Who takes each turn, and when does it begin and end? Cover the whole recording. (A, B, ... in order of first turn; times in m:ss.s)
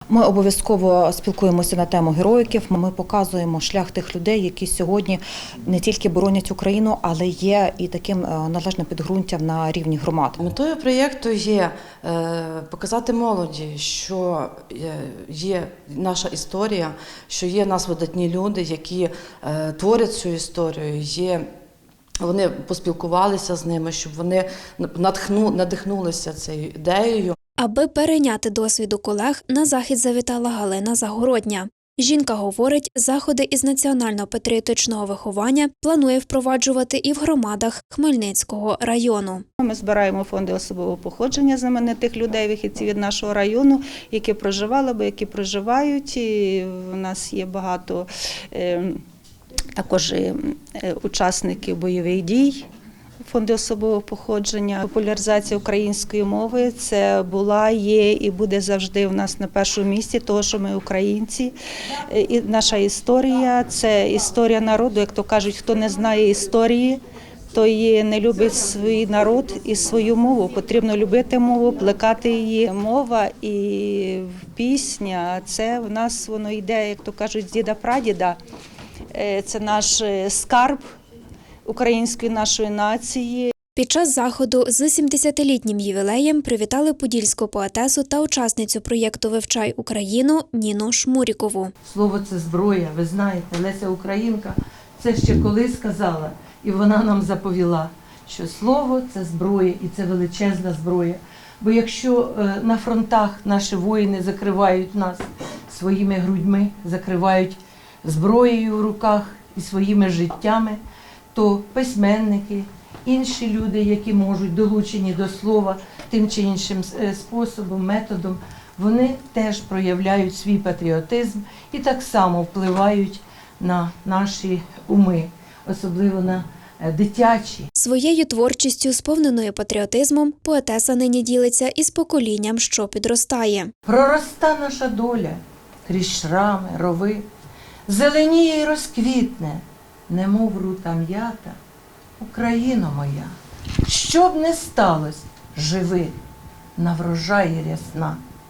0:00.1-0:10.4 A
0:10.4-0:21.5 B
0:22.2-0:27.4 B
0:27.6-0:39.4 C
0:39.6-0:49.0 D
0:49.8-0:52.6 D
0:53.2-1:01.5 D
1:02.1-1:07.0 D
1:07.5-1:18.4 D
1:19.1-1:20.8 D
1:21.6-1:23.5 D
1:23.8-1:31.7 C
1:31.8-1:50.8 E
1:51.3-2:07.7 E
2:07.8-2:13.7 C
2:13.8-2:17.2 E
2:17.9-2:21.6 E
2:22.2-2:23.3 E
2:23.9-2:26.1 E
2:26.8-2:28.2 E